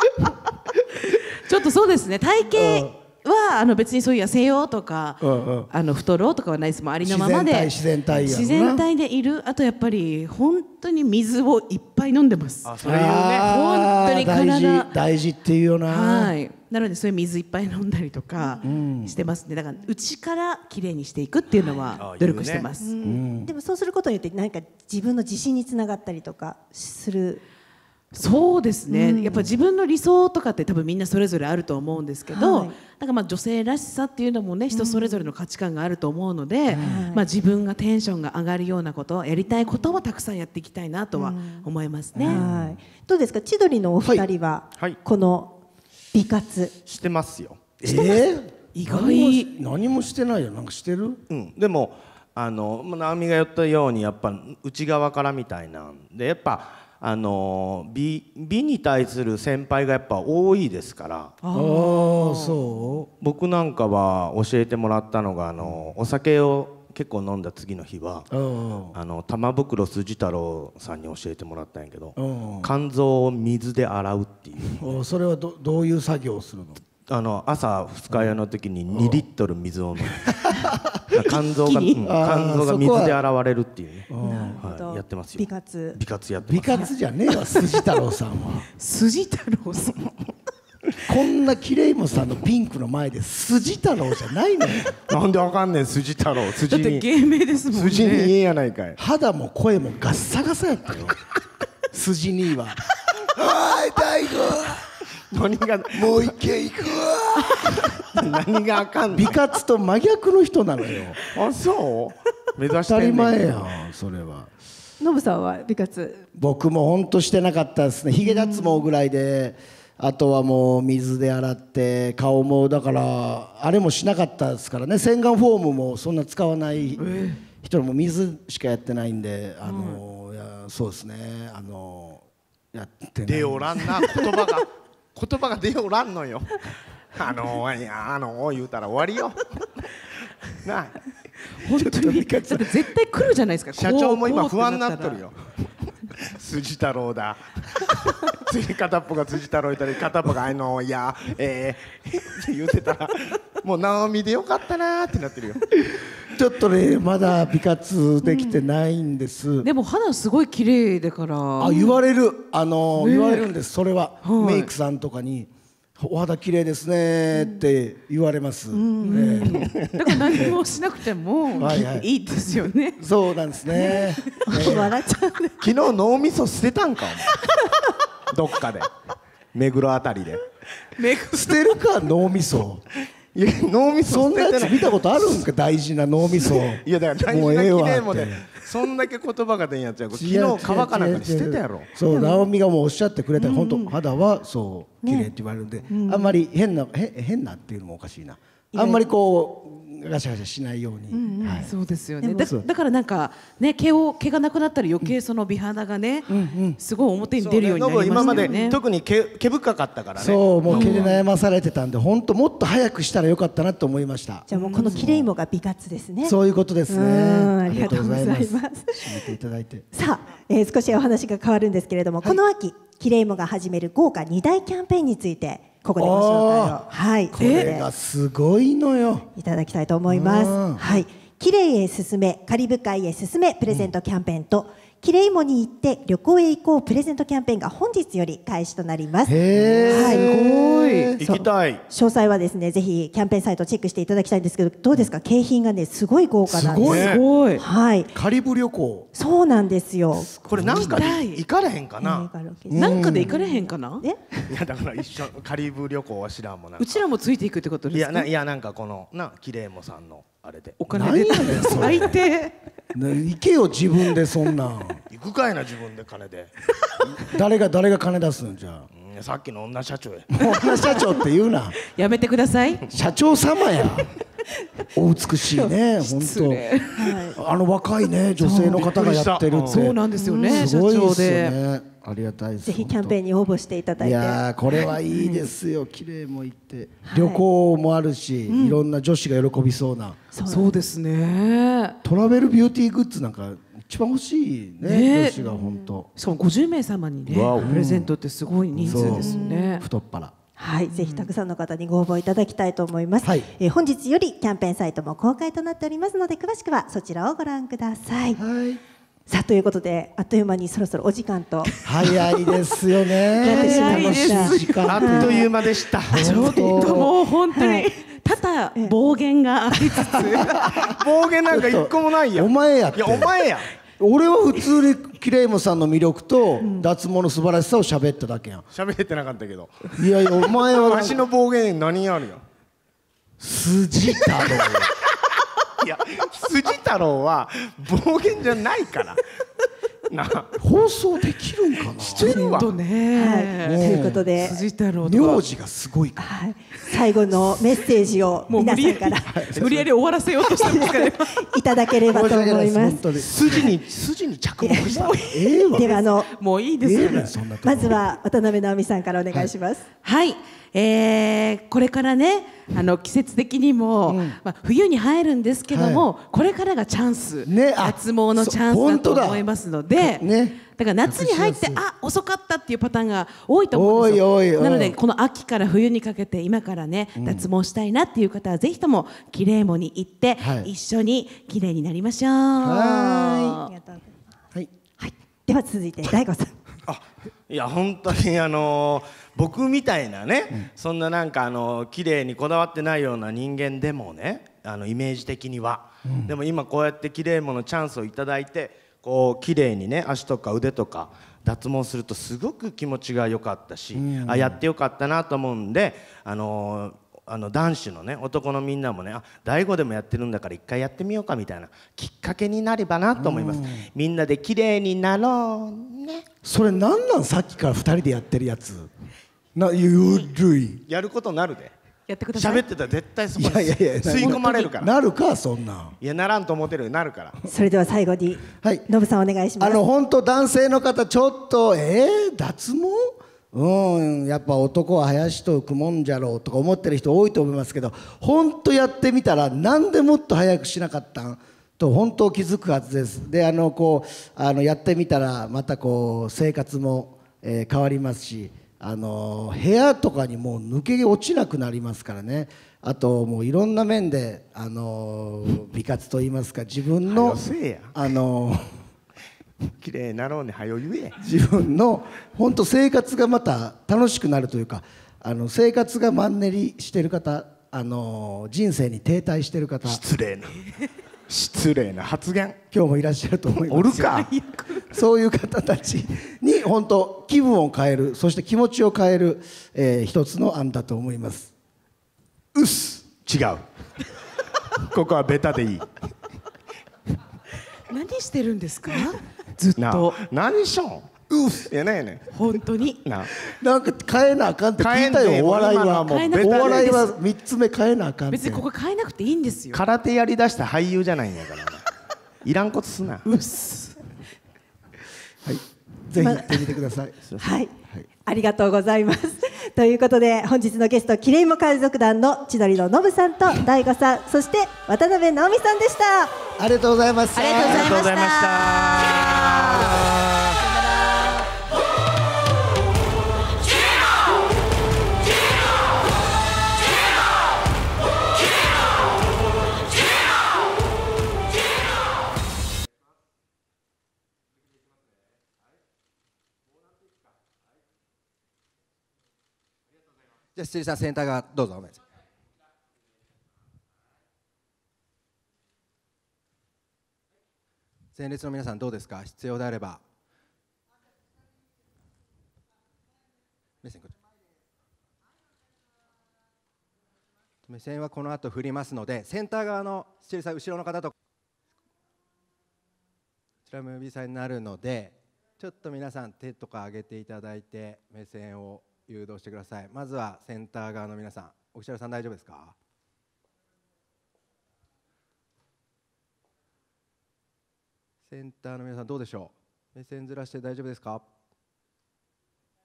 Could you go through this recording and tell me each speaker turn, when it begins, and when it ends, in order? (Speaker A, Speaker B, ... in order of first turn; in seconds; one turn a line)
Speaker A: 1.1-12.7
Speaker B: 2.5-2.9
Speaker B: 5.2-5.7
Speaker B: 7.0-8.8
Speaker C: 12.6-13.5
Speaker B: 12.8-16.4
Speaker A: 13.4-14.9
Speaker A: 15.9-22.9
Speaker D: 18.4-18.7
Speaker B: 18.6-19.1
Speaker C: 22.0-22.7
Speaker D: 22.8-27.4
Speaker B: 23.0-23.5
Speaker A: 28.1-42.4
Speaker D: 28.9-29.5
Speaker D: 32.3-32.8
Speaker D: 34.7-35.3
Speaker B: 36.7-37.1
Speaker D: 36.8-37.2
Speaker D: 41.1-41.7
Speaker B: 42.1-42.8
Speaker D: 42.2-45.6
Speaker D: 46.1-46.7
Speaker C: 46.9-47.6
Speaker B: 47.8-51.2
Speaker A: 48.8-49.5
Speaker C: 51.3-61.4
Speaker A: 61.4-62.6
Speaker B: 61.5-63.1
Speaker C: 63.2-68.3
Speaker B: 68.3-69.0
Speaker C: 68.9-74.9
Speaker B: 72.2-72.7
Speaker B: 74.8-76.8
Speaker C: 77.0-86.9
Speaker B: 78.1-78.4
Speaker B: 78.9-79.2
Speaker B: 80.3-81.0
Speaker A: 81.2-82.0
Speaker B: 82.0-83.2
Speaker B: 84.1-84.6
Speaker D: 84.2-86.0
Speaker B: 86.5-88.7
Speaker A: 88.8-90.1
Speaker B: 91.1-94.9
Speaker C: 94.9-97.1
Speaker A: 96.7-98.3
Speaker C: 97.7-99.0
Speaker B: 99.0-101.2
Speaker B: 101.9-102.8
Speaker B: 103.3-104.8
Speaker C: 104.8-106.3
Speaker B: 105.9-108.3
Speaker C: 107.5-109.4
Speaker B: 109.1-111.2
Speaker C: 111.2-113.8
Speaker B: 112.9-114.5
Speaker D: 115.0-116.2
Speaker B: 116.4-134.1
Speaker D: 118.2-118.9
Speaker A: 127.0-127.4
Speaker A: 129.6-130.0
Speaker C: 133.2-140.0
Speaker C: 140.5-141.0
Speaker A: 141.5-145.2
Speaker B: 141.7-142.9
Speaker C: 143.8-155.7
Speaker B: 155.9-159.7
Speaker D: 158.2-158.5
Speaker A: 159.6-161.8
Speaker B: 161.6-169.8
Speaker D: 161.7-161.9
Speaker A: 163.0-163.5
Speaker A: 164.2-164.7
Speaker D: 167.3-167.7
Speaker D: 168.7-170.2
Speaker A: 169.0-173.0
Speaker B: 171.5-172.1
Speaker B: 173.0-174.9
Speaker D: 173.8-175.7
Speaker A: 173.8-174.5
Speaker C: 175.6-177.3
Speaker D: 177.3-177.9
Speaker C: 178.3-178.9
Speaker C: 179.5-180.5
Speaker A: 180.9-181.8
Speaker B: 181.3-182.8
Speaker C: 183.2-185.4
Speaker B: 184.0-188.5
Speaker C: 186.3-191.9
Speaker B: 190.1-201.7
Speaker D: 192.1-192.4
Speaker D: 193.4-193.9
Speaker D: 195.0-195.3
Speaker D: 195.9-196.3
Speaker D: 198.7-199.1
Speaker D: 201.1-201.7
Speaker A: 201.6-208.8
Speaker D: 202.2-202.5
Speaker B: 206.3-206.8
Speaker C: 207.4-211.2
Speaker D: 208.1-208.8
Speaker B: 210.1-215.3
Speaker A: 210.7-211.1
Speaker D: 214.5-216.4
Speaker A: 214.5-215.0
Speaker B: 216.2-219.9
Speaker D: 216.9-219.3
Speaker D: 219.9-227.9
Speaker B: 226.0-229.3
Speaker A: 227.4-227.8
Speaker D: 229.3-240.2
Speaker B: 230.1-230.8
Speaker B: 239.3-241.2
Speaker C: 239.5-240.1
Speaker A: 239.8-241.1
Speaker C: 241.2-241.8
Speaker D: 241.2-246.9
Speaker B: 246.5-247.2
Speaker C: 246.8-247.2
Speaker A: 246.8-247.6
Speaker D: 247.6-248.1
Speaker B: 248.1-249.1
Speaker D: 249.1-250.3
Speaker B: 250.1-251.1
Speaker C: 250.5-252.3
Speaker A: 250.7-251.4
Speaker D: 252.0-254.4
Speaker B: 252.7-253.3
Speaker A: 252.7-254.0
Speaker C: 254.5-257.0
Speaker A: 256.8-258.3
Speaker C: 257.9-260.8
Speaker A: 260.8-262.6
Speaker B: 260.9-262.2
Speaker C: 261.5-261.9
Speaker B: 262.9-265.0
Speaker C: 265.1-266.5
Speaker B: 267.0-268.9
Speaker C: 268.9-270.4
Speaker B: 270.3-271.8
Speaker A: 270.4-271.1
Speaker A: 271.8-272.9
Speaker B: 272.9-274.1
Speaker B: 274.9-283.2
Speaker A: 276.0-277.2
Speaker D: 277.0-277.4
Speaker A: 278.4-281.6
Speaker C: 278.7-279.9
Speaker D: 280.2-280.7
Speaker D: 282.6-284.9
Speaker B: 284.0-290.2
Speaker A: 285.1-285.5
Speaker D: 287.1-287.4
Speaker D: 288.5-288.8
Speaker D: 290.3-290.7
Speaker A: 290.5-292.0
Speaker B: 292.0-296.1
Speaker A: 294.8-295.4
Speaker D: 295.4-296.0
Speaker A: 296.2-299.9
Speaker C: 297.3-297.8
Speaker B: 297.5-298.1
Speaker C: 298.8-299.2
Speaker B: 298.8-300.3
Speaker D: 299.2-299.6
Speaker D: 300.6-308.4
Speaker A: 300.9-301.3
Speaker B: 303.2-303.5
Speaker B: 308.4-308.8
Speaker D: 309.3-311.7
Speaker A: 311.7-312.6
Speaker B: 311.8-315.5
Speaker A: 313.3-320.7
Speaker D: 313.4-315.5
Speaker C: 314.8-316.4
Speaker B: 316.1-317.1
Speaker D: 316.1-317.9
Speaker D: 319.7-320.5
Speaker B: 320.4-323.3
Speaker C: 320.9-323.7
Speaker B: 324.0-328.7
Speaker C: 328.7-332.4
Speaker B: 330.0-331.3
Speaker B: 333.4-334.9
Speaker C: 334.5-335.0
Speaker C: 335.8-339.2
Speaker C: 340.1-340.6
Speaker B: 340.6-342.4
Speaker C: 341.9-342.7
Speaker A: 342.2-345.4
Speaker D: 343.1-344.6
Speaker B: 343.6-344.3
Speaker B: 345.0-346.3
Speaker D: 346.2-349.4
Speaker A: 348.5-351.5
Speaker B: 349.3-349.9
Speaker D: 350.4-353.7
Speaker B: 352.1-353.7
Speaker C: 353.2-355.3
Speaker D: 354.6-354.9
Speaker A: 354.6-357.3
Speaker B: 355.2-355.9
Speaker D: 355.7-356.3
Speaker B: 356.8-358.0
Speaker D: 357.6-359.9
Speaker A: 360.0-383.7
Speaker B: 364.1-364.4
Speaker B: 365.7-366.1
Speaker B: 367.4-369.4
Speaker B: 370.0-371.8
Speaker B: 373.7-375.0
Speaker B: 377.2-377.5
Speaker B: 380.4-380.7
Speaker B: 382.6-383.7
Speaker D: 383.7-384.3
Speaker D: 385.0-386.6
Speaker C: 386.9-416.2
Speaker B: 396.0-396.3
Speaker B: 403.9-404.6
Speaker B: 413.2-413.9
Speaker B: 416.4-418.9
Speaker B: 419.5-420.8
Speaker C: 420.9-421.7
Speaker A: 422.1-422.6
Speaker C: 422.3-424.9
Speaker B: 423.4-426.0
Speaker C: 426.0-427.4
Speaker D: 427.5-429.8
Speaker B: 428.6-428.9
Speaker B: 429.6-458.8
Speaker C: 457.1-457.9
Speaker C: 459.8-461.2
Speaker B: 461.2-470.0
Speaker C: 469.8-472.6
Speaker B: 472.7-474.1
Speaker C: 473.7-474.3
Speaker A: 473.9-474.9
Speaker B: 474.9-481.5
Speaker C: 482.6-483.6
Speaker C: 484.7-485.9
Speaker A: 487.9-490.2
Speaker C: 489.8-492.3
Speaker A: 492.3-493.0
Speaker C: 493.0-493.3
Speaker B: 493.4-498.7
Speaker C: 494.8-497.0
Speaker A: 496.1-497.1
Speaker A: 498.3-499.8
Speaker C: 499.7-501.8
Speaker C: 502.4-503.2
Speaker A: 503.2-504.0
Speaker B: 505.4-507.1
Speaker D: 506.2-506.7
Speaker D: 507.4-507.7
Speaker D: 508.2-516.4
Speaker B: 516.6-518.0
Speaker A: 517.3-520.0
Speaker C: 517.5-520.6
Speaker A: 520.6-521.5
Speaker E: 540.5-542.1
Speaker E: 548.1-550.0
Speaker E: 553.8-554.2
Speaker E: 557.6-561.1
Speaker E: 563.7-572.8
Speaker E: 578.2-581.3